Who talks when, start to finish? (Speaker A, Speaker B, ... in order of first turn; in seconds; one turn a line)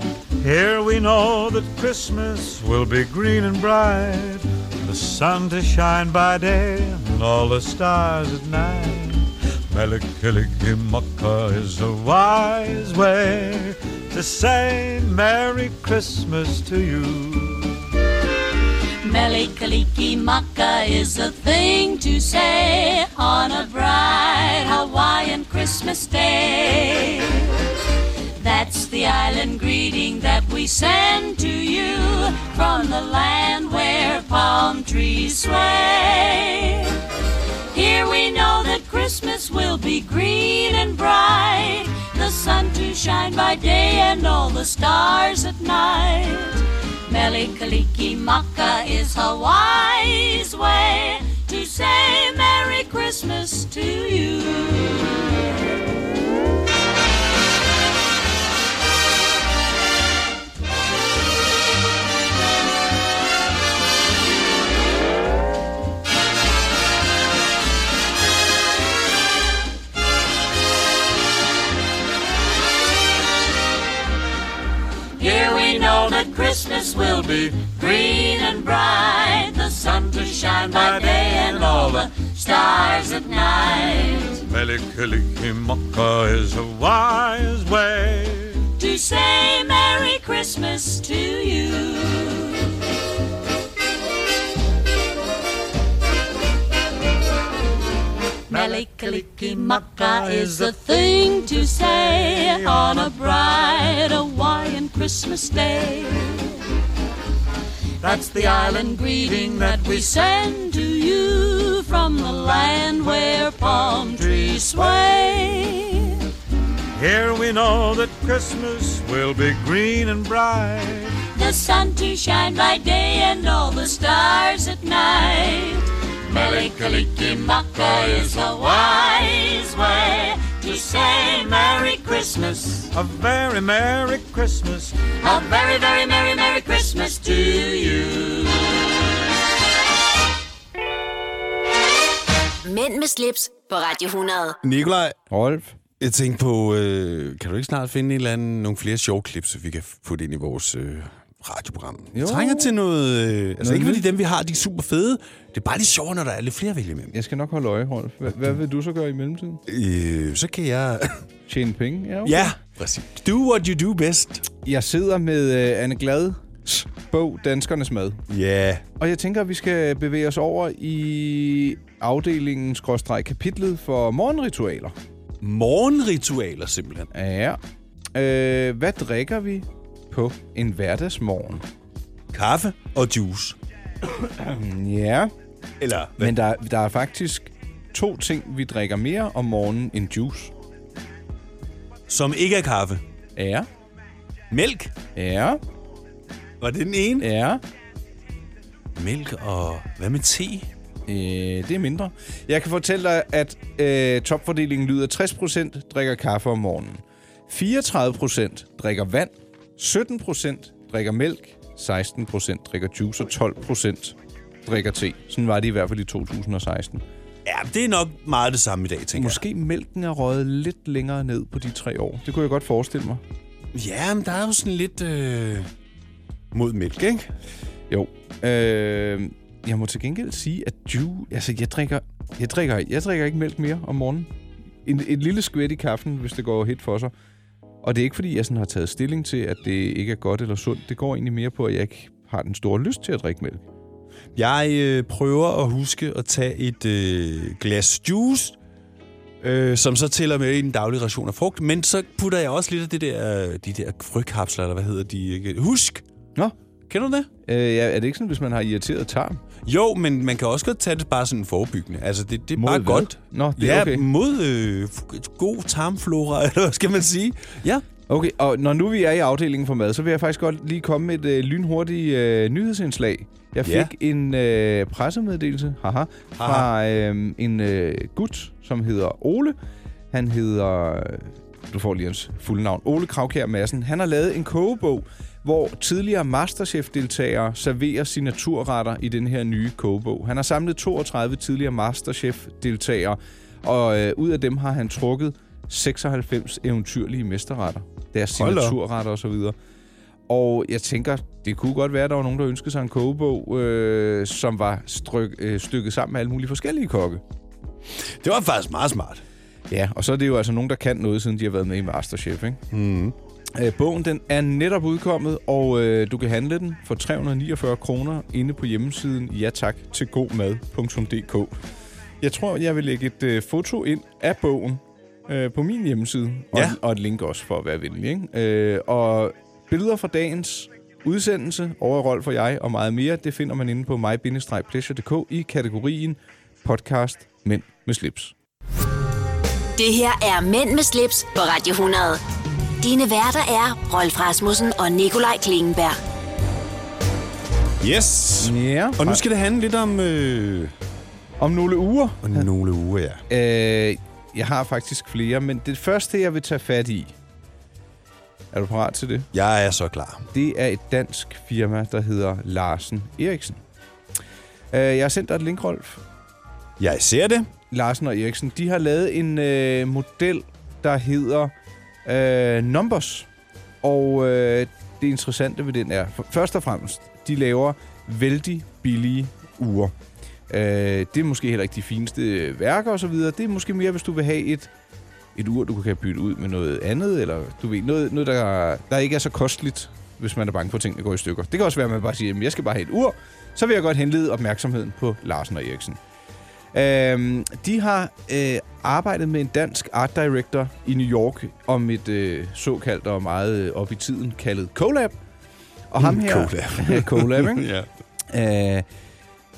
Speaker A: 0.4-17.8
Speaker B: 19.0-27.5
Speaker B: 28.4-37.0
Speaker B: 37.7-55.3
Speaker B: 75.2-84.4
Speaker A: 77.2-77.5
Speaker A: 80.0-82.1
Speaker A: 84.5-88.7
Speaker B: 88.8-92.7
Speaker A: 98.5-103.9
Speaker B: 98.5-106.5
Speaker A: 108.0-110.3
Speaker B: 108.1-116.1
Speaker A: 112.4-115.5
Speaker A: 116.9-121.2
Speaker B: 121.3-132.9
Speaker A: 126.3-129.0
Speaker A: 132.9-135.6
Speaker B: 135.2-138.7
Speaker A: 137.3-138.2
Speaker C: 142.6-144.6
Speaker D: 144.6-145.2
Speaker E: 145.3-145.8
Speaker D: 146.0-157.1
Speaker E: 152.1-152.8
Speaker E: 153.6-154.0
Speaker E: 157.1-159.6
Speaker D: 159.7-161.2
Speaker E: 161.5-162.6
Speaker D: 162.2-164.4
Speaker E: 164.6-168.2
Speaker D: 168.3-168.8
Speaker E: 169.0-174.9
Speaker D: 175.4-177.1
Speaker E: 177.1-177.6
Speaker E: 178.1-181.6
Speaker D: 182.3-183.6
Speaker E: 184.1-185.3
Speaker D: 185.8-186.3
Speaker E: 186.2-190.5
Speaker D: 192.1-193.0
Speaker E: 193.3-193.7
Speaker D: 194.5-194.9
Speaker E: 195.1-195.6
Speaker D: 196.6-197.3
Speaker E: 197.2-197.6
Speaker D: 198.9-200.7
Speaker E: 201.1-217.0
Speaker D: 217.4-219.4
Speaker E: 219.1-223.2
Speaker D: 223.7-225.7
Speaker D: 226.5-227.3
Speaker E: 227.9-234.3
Speaker E: 234.8-237.1
Speaker E: 237.8-243.6
Speaker D: 244.3-248.6
Speaker D: 249.4-256.0
Speaker D: 256.9-257.3
Speaker E: 257.4-259.4
Speaker D: 259.6-267.8
Speaker E: 262.6-264.1
Speaker E: 268.1-279.6
Speaker D: 273.6-273.9
Speaker D: 276.4-276.7
Speaker E: 280.1-299.6
Speaker D: 298.4-298.8
Speaker E: 300.3-307.2
Speaker D: 308.2-309.2
Speaker E: 309.7-312.6
Speaker D: 312.7-313.1
Speaker E: 313.5-321.6
Speaker E: 322.2-338.3
Speaker C: 339.8-342.2
Speaker C: 342.8-346.0
Speaker D: 347.8-350.7
Speaker E: 348.4-349.2
Speaker E: 351.4-352.5
Speaker D: 352.2-353.2
Speaker E: 353.3-357.1
Speaker E: 358.5-359.3
Speaker D: 359.3-360.3
Speaker E: 360.3-363.6
Speaker E: 364.7-366.0
Speaker D: 366.8-367.5
Speaker E: 367.7-371.5
Speaker E: 372.0-373.3
Speaker E: 373.8-379.9
Speaker E: 380.5-384.7
Speaker E: 385.3-396.0
Speaker E: 396.7-405.2
Speaker E: 405.9-407.7
Speaker D: 406.0-407.9
Speaker E: 408.3-408.9